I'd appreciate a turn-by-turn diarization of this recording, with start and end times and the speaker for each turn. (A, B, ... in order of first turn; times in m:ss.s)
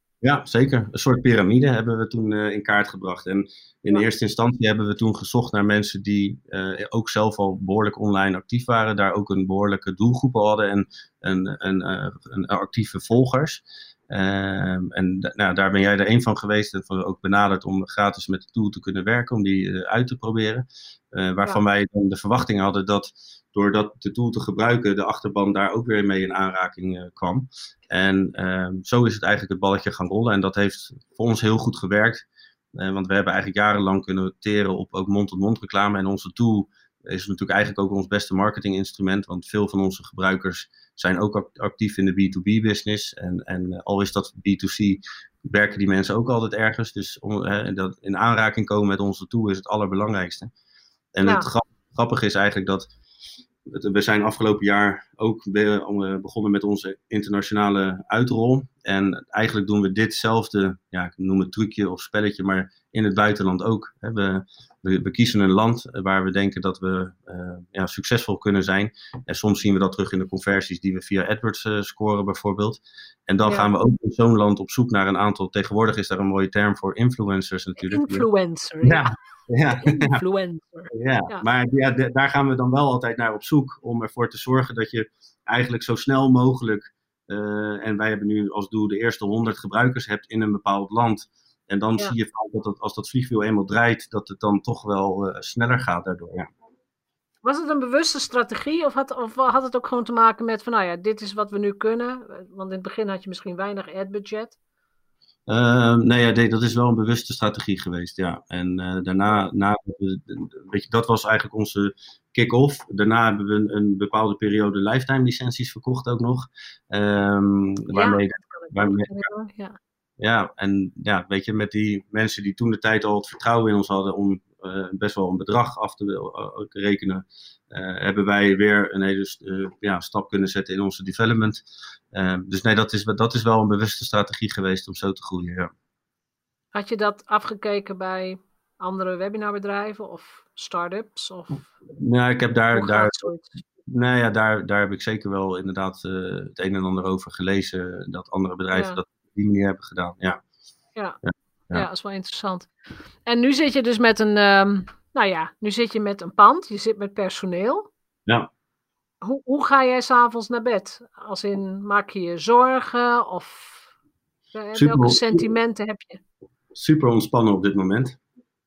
0:00.2-0:50.5 A
0:51.1-0:52.9 A
0:53.6-1:18.3 A
1:13.4-1:13.7 B
1:17.8-1:19.2 B
1:18.8-1:20.2 A
1:19.7-1:21.4 B
1:20.9-1:36.5 A
1:37.4-1:44.6 B
1:45.5-1:59.3 A
1:57.9-1:59.8 B
2:00.2-2:15.7 A
2:16.7-2:21.7 B
2:22.0-2:23.3 A
2:22.7-2:23.6 B
2:23.8-2:30.4 A
2:28.7-2:29.0 B
2:31.2-2:31.9 A
2:31.7-2:32.7 B
2:33.2-2:37.9 B
2:39.2-2:43.9 B
2:44.5-2:46.2 B
2:44.7-2:45.4 A
2:46.7-2:48.2 A